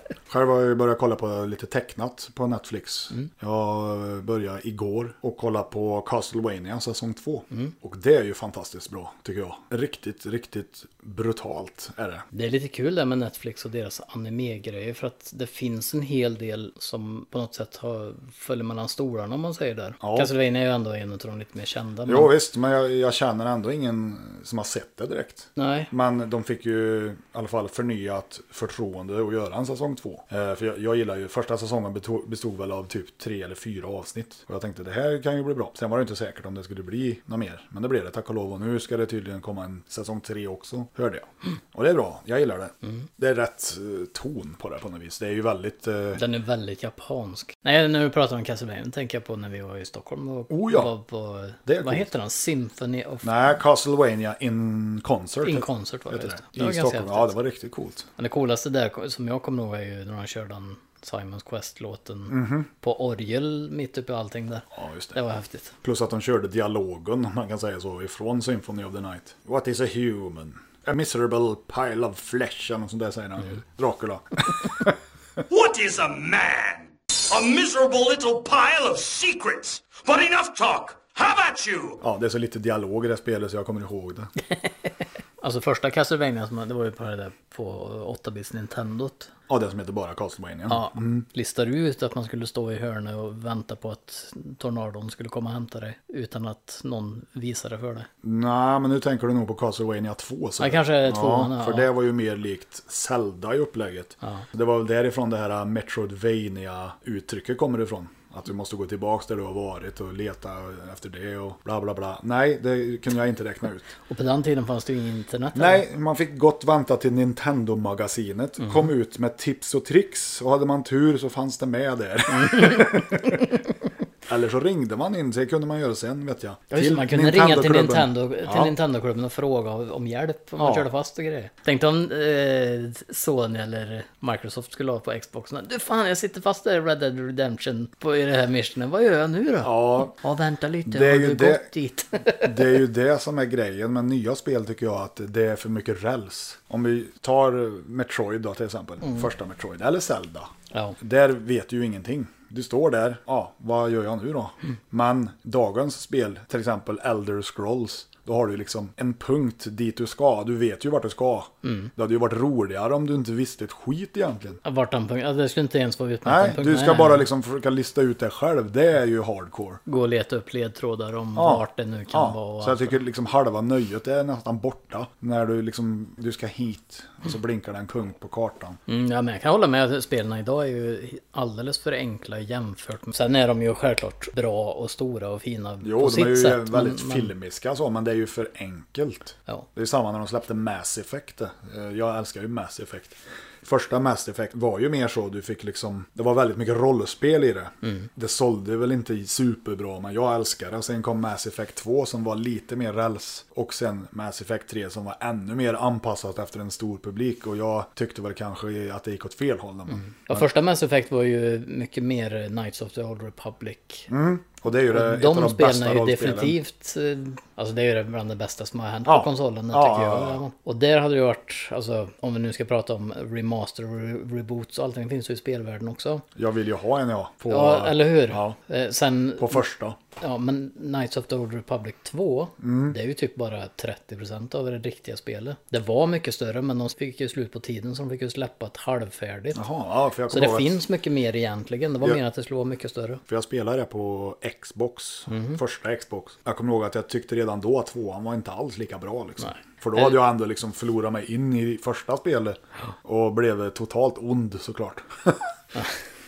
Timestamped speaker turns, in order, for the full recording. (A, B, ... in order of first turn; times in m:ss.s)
0:00.3-0:12.2 A
0:12.3-0:22.3 B
0:20.0-0:20.3 A
0:22.1-0:46.2 A
0:25.6-0:25.9 B
0:46.2-0:53.3 B
0:50.5-0:50.9 A
0:51.6-0:52.1 A
0:53.2-0:58.1 A
0:55.4-0:57.3 B
0:58.2-1:05.7 B
1:02.3-1:02.7 A
1:04.7-1:05.2 A
1:05.8-1:14.9 A
1:15.5-1:22.0 C
1:22.0-1:24.3 A
1:25.4-1:29.3 B
1:29.5-1:31.2 A
1:30.7-1:38.1 B
1:38.2-1:53.9 A
1:40.6-1:41.9 B
1:54.1-1:55.8 B
1:55.5-2:03.6 A
2:02.3-2:03.4 B
2:04.2-2:08.7 A
2:06.7-2:22.8 B
2:10.6-2:10.9 A
2:19.6-2:20.1 A
2:20.9-2:21.7 A
2:22.3-2:44.6 A
2:30.7-2:31.0 B
2:41.6-2:41.9 B
2:44.6-2:47.2 B
2:46.2-2:49.8 A
2:49.8-2:53.0 B
2:51.4-2:58.8 A
2:58.9-3:07.3 B
3:05.8-3:30.4 A
3:17.8-3:18.1 B
3:29.9-3:34.1 B
3:34.1-3:36.6 A
3:34.9-3:46.2 B
3:39.0-3:40.4 A
3:46.3-3:48.6 A
3:47.5-3:49.6 B
3:49.4-3:50.0 A
3:50.2-3:59.6 B
3:52.6-3:53.0 A
3:59.5-4:00.8 A
4:00.3-4:03.2 B
4:03.3-4:15.5 A
4:05.3-4:05.6 B
4:09.4-4:10.2 B